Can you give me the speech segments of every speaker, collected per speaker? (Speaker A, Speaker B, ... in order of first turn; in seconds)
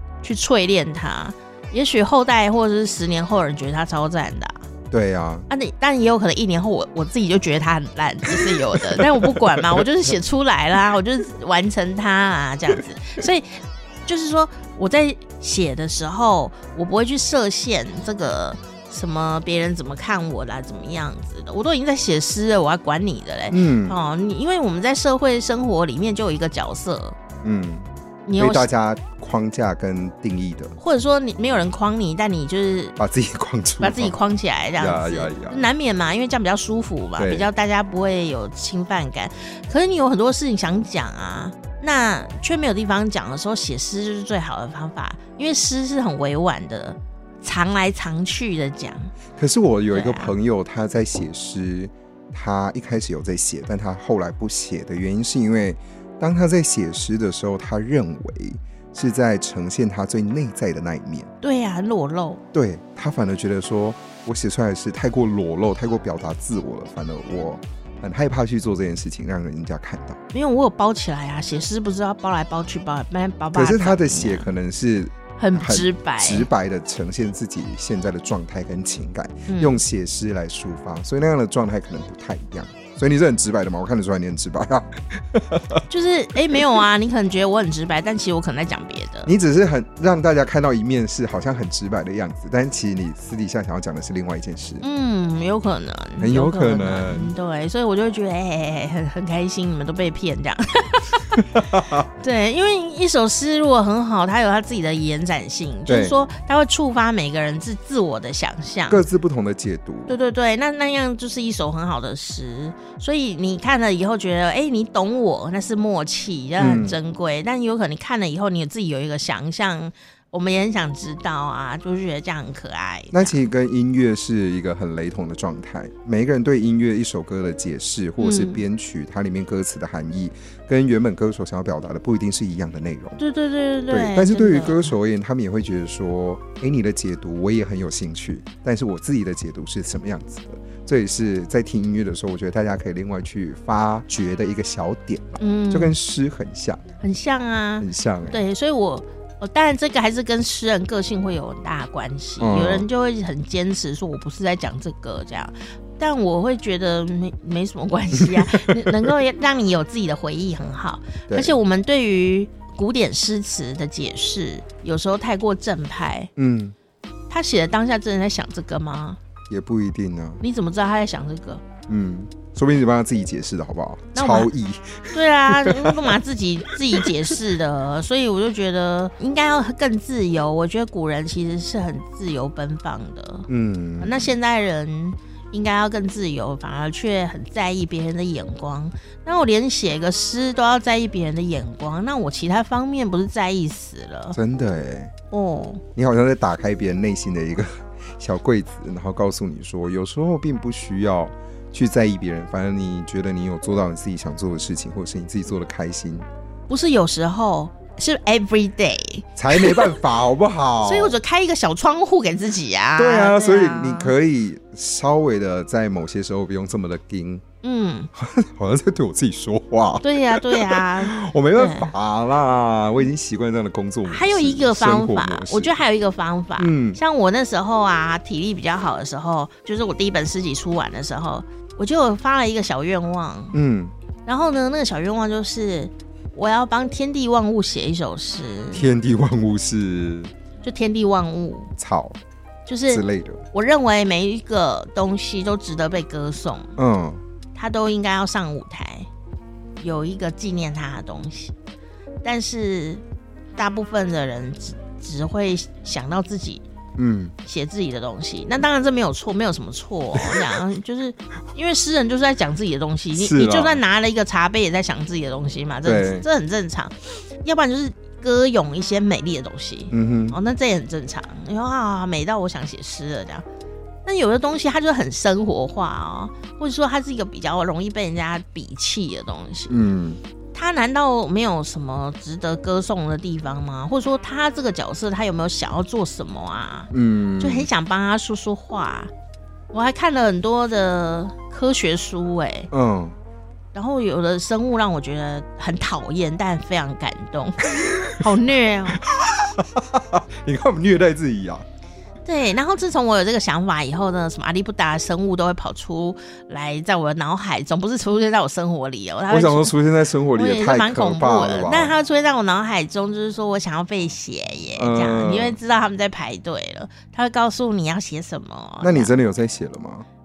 Speaker A: 0.2-4.6, 5.5-27.2, 28.2-28.7, 30.8-33.0, 33.8-49.1, 49.9-50.3, 61.4-62.4, 70.3-74.5, 75.4-76.5, 79.5-79.8, 85.9-89.3, 94.8-101.2, 102.2-109.0, 110.1-123.4, 128.2-128.6, 133.2-134.9, 145.4-145.9, 147.0-166.3, 167.3-169.2, 170.4-171.6, 174.1-174.5, 175.1-183.5, 184.0-194.4, 195.3-195.8, 206.7-210.0, 210.8-214.1, 217.6-218.1, 220.0-221.9, 224.1-233.6, 234.2-238.9, 240.6-241.7, 242.7-246.7, 247.5-249.1, 249.8-251.5, 252.2-253.0, 253.6-256.6, 257.4-273.4, 274.0-279.8, 280.5-289.1, 289.7-292.7, 293.7-299.0, 302.2-309.8, 310.3-319.1
Speaker B: 4.9-5.5, 8.9-9.8, 23.5-24.0, 27.4-30.8, 33.0-34.1, 34.8-35.6, 37.2-37.5, 49.4-61.3, 62.5-70.2, 73.5-85.8, 89.2-94.8, 96.2-97.3, 101.4-102.0, 105.9-106.2, 108.9-110.1, 116.6-117.0, 123.1-133.2, 133.9-146.8, 147.8-148.4, 152.4-152.9, 158.2-158.9, 161.3-161.6, 166.4-166.8, 169.5-170.4, 171.9-176.2, 183.5-184.3, 194.3-195.1, 196.0-206.2, 209.4-211.2, 213.0-217.4, 218.1-225.8, 226.6-227.0, 233.5-233.9, 238.7-240.3, 241.8-242.2, 242.9-243.4, 246.8-247.2, 257.0-257.3, 263.1-263.8, 265.9-266.2, 269.9-270.4, 279.7-280.2, 286.9-287.7, 292.7-293.1, 297.8-298.2, 299.0-301.6, 309.3-311.9, 314.8-315.6, 318.8-320.1